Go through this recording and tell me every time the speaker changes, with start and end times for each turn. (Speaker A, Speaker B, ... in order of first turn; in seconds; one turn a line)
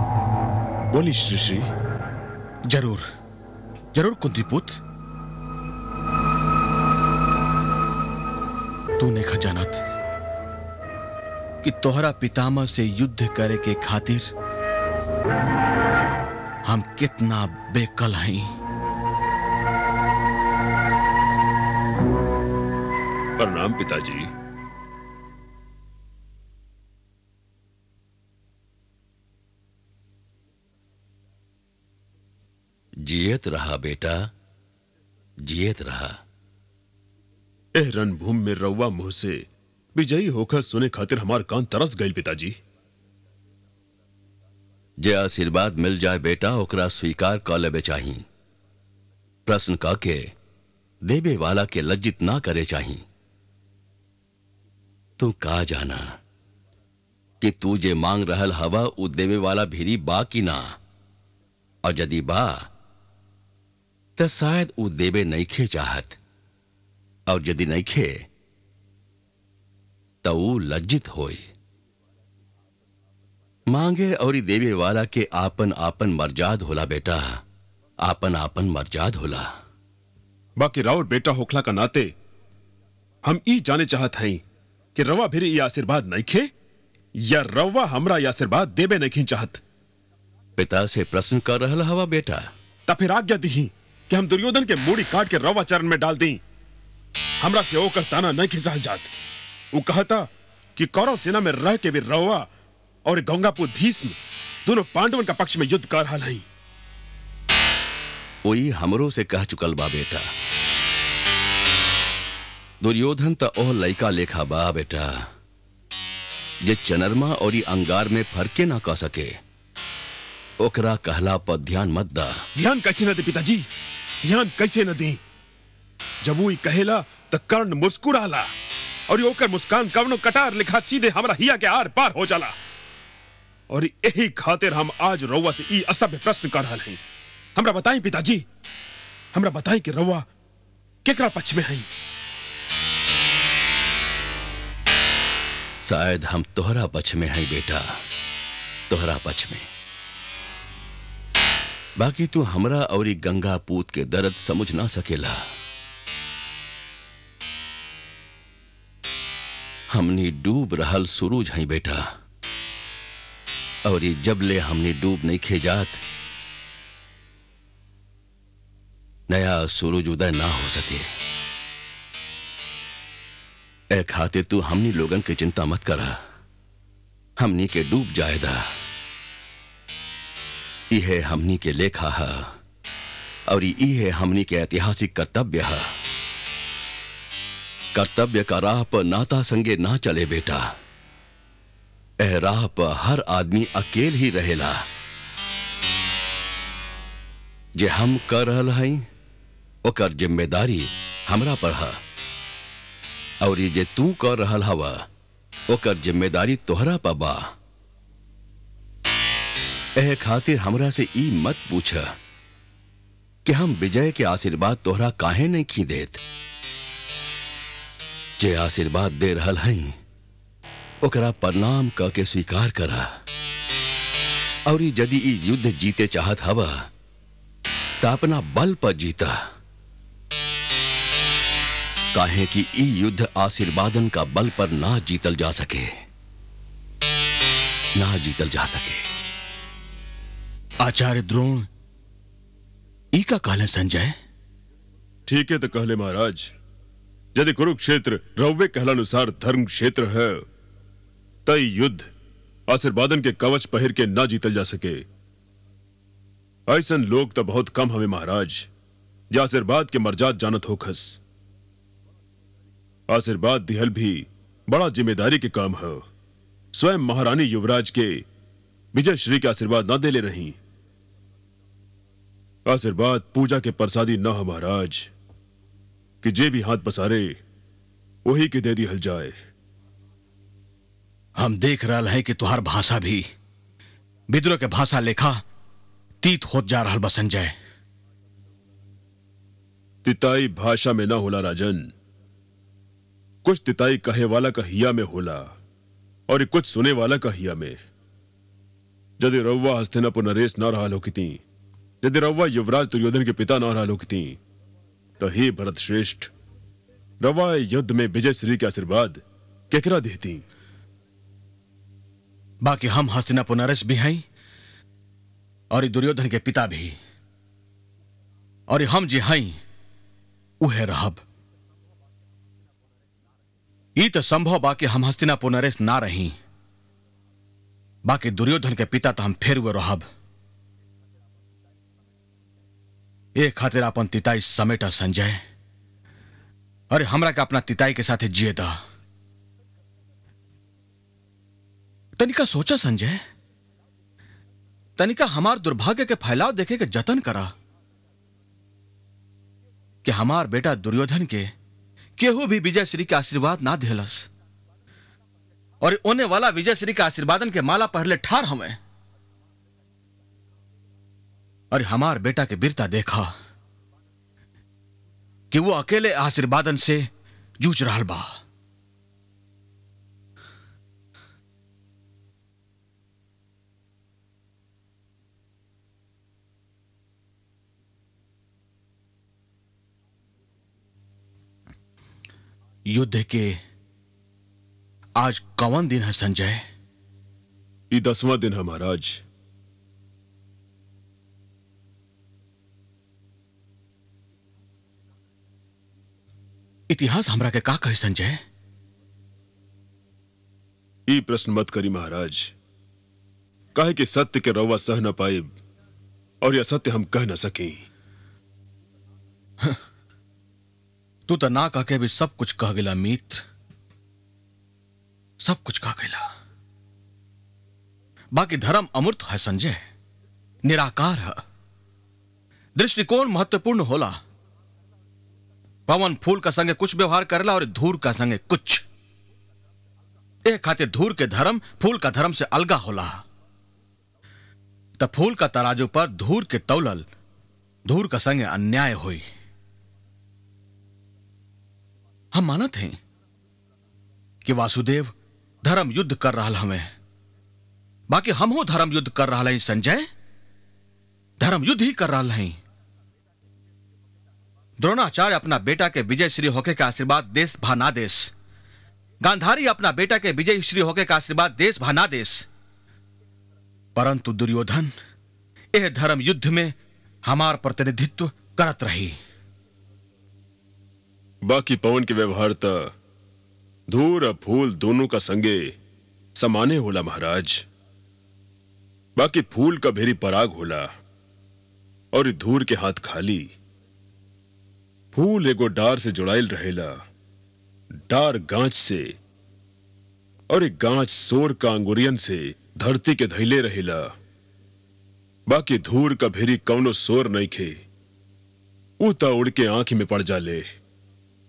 Speaker A: 0.9-1.7
Speaker B: 2.7-3.1
Speaker B: 3.9-4.8
Speaker B: 9.0-9.8
Speaker B: 11.6-14.3
Speaker B: 16.6-18.5
Speaker A: 23.4-24.3
Speaker C: 33.0-34.3
Speaker C: 35.4-36.2
Speaker A: 37.8-42.6
Speaker C: 45.0-48.2
Speaker C: 49.5-50.3
Speaker C: 51.0-53.0
Speaker C: 55.2-56.2
Speaker C: 57.4-60.8
Speaker C: 61.8-62.7
Speaker C: 64.2-66.2
Speaker C: 67.3-68.2
Speaker C: 70.2-71.5
Speaker C: 73.7-77.4
Speaker C: 78.0-79.5
Speaker A: 80.6-82.1
Speaker A: 83.2-84.4
Speaker A: 84.9-86.5
Speaker A: 87.2-89.6
Speaker C: 90.6-92.5
Speaker A: 92.9-96.4
Speaker A: 97.4-99.1
Speaker A: 99.7-102.5
Speaker A: 103.1-106.4
Speaker C: 108.4-110.3
Speaker C: 112.8-115.3
Speaker C: 116.6-119.4
Speaker C: 120.6-122.4
Speaker A: 122.6-123.7
Speaker A: 124.2-125.2
Speaker A: 126.2-128.5
Speaker A: 129.1-132.6
Speaker A: 133.7-137.0
Speaker A: 137.6-138.4
Speaker A: 139.3-140.3
Speaker A: 141.1-141.9
Speaker C: 145.8-148.0
Speaker C: 148.9-149.7
Speaker C: 152.0-155.4
Speaker C: 159.9-162.1
Speaker C: 163.9-166.0
Speaker C: 169.3-171.1
Speaker C: 173.9-176.2
Speaker C: 177.4-178.7
Speaker C: 180.9-182.6
Speaker C: 183.5-185.9
Speaker C: 187.9-190.7
Speaker C: 192.2-194.9
Speaker C: 197.8-199.1
Speaker C: 199.8-202.0
Speaker C: 203.4-205.1
Speaker C: 205.7-207.5
Speaker C: 210.0-212.2
Speaker C: 213.4-216.2
Speaker C: 218.4-220.0
Speaker C: 221.0-223.1
Speaker C: 224.7-226.9
Speaker C: 228.0-229.4
Speaker C: 232.1-236.0
Speaker C: 238.0-239.1
Speaker B: 240.8-241.7
Speaker B: 243.1-244.2
Speaker A: 245.3-246.5
Speaker A: 247.3-250.4
Speaker A: 251.4-252.1
Speaker A: 252.7-255.1
Speaker A: 256.7-258.7
Speaker A: 259.3-261.2
Speaker A: 263.1-266.1
Speaker A: 266.7-268.2
Speaker A: 268.9-270.6
Speaker A: 272.6-275.1
Speaker A: 276.2-277.4
Speaker A: 278.2-279.4
Speaker B: 281.4-283.3
Speaker B: 284.3-285.4
Speaker B: 286.2-287.6
Speaker A: 290.1-291.9
Speaker A: 293.4-295.5
Speaker A: 296.3-297.8
Speaker A: 299.2-301.4
Speaker A: 302.0-304.4
Speaker A: 305.2-306.3
Speaker A: 307.2-310.4
Speaker B: 312.6-314.2
Speaker B: 315.7-317.0
Speaker B: 318.7-319.6
Speaker B: 320.6-321.2
Speaker B: 324.0-326.4
Speaker B: 328.1-330.1
Speaker B: 333.4-335.4
Speaker B: 336.9-338.8
Speaker B: 342.2-343.2
Speaker B: 345.0-347.5
Speaker B: 350.1-351.5
Speaker B: 352.2-354.3
Speaker B: 355.8-358.8
Speaker B: 361.7-363.3
Speaker B: 365.5-367.1
Speaker B: 367.6-368.4
Speaker B: 382.9-383.6
Speaker B: 385.2-386.6
Speaker A: 387.9-389.2
Speaker B: 396.9-398.4
Speaker A: 401.1-402.5
Speaker A: 403.7-405.5
Speaker A: 406.4-407.8
Speaker B: 411.3-413.4
Speaker B: 415.4-416.3
Speaker B: 418.3-419.9
Speaker B: 420.6-421.4
Speaker B: 422.8-424.2
Speaker B: 425.9-428.8
Speaker B: 430.4-433.2
Speaker B: 435.0-437.1
Speaker B: 437.9-439.3
Speaker B: 442.3-443.0
Speaker B: 444.4-446.9
Speaker B: 448.1-450.1
Speaker B: 451.4-452.6
Speaker B: 454.8-458.3
Speaker B: 459.2-462.5
Speaker B: 463.9-464.9
Speaker B: 465.7-469.2
Speaker A: 471.4-472.9
Speaker A: 473.9-475.7
Speaker A: 476.4-477.6
Speaker A: 479.2-480.9
Speaker A: 482.1-483.5
Speaker A: 485.1-487.0
Speaker A: 488.1-489.2
Speaker A: 490.5-494.1
Speaker A: 495.5-497.8
Speaker A: 499.0-500.7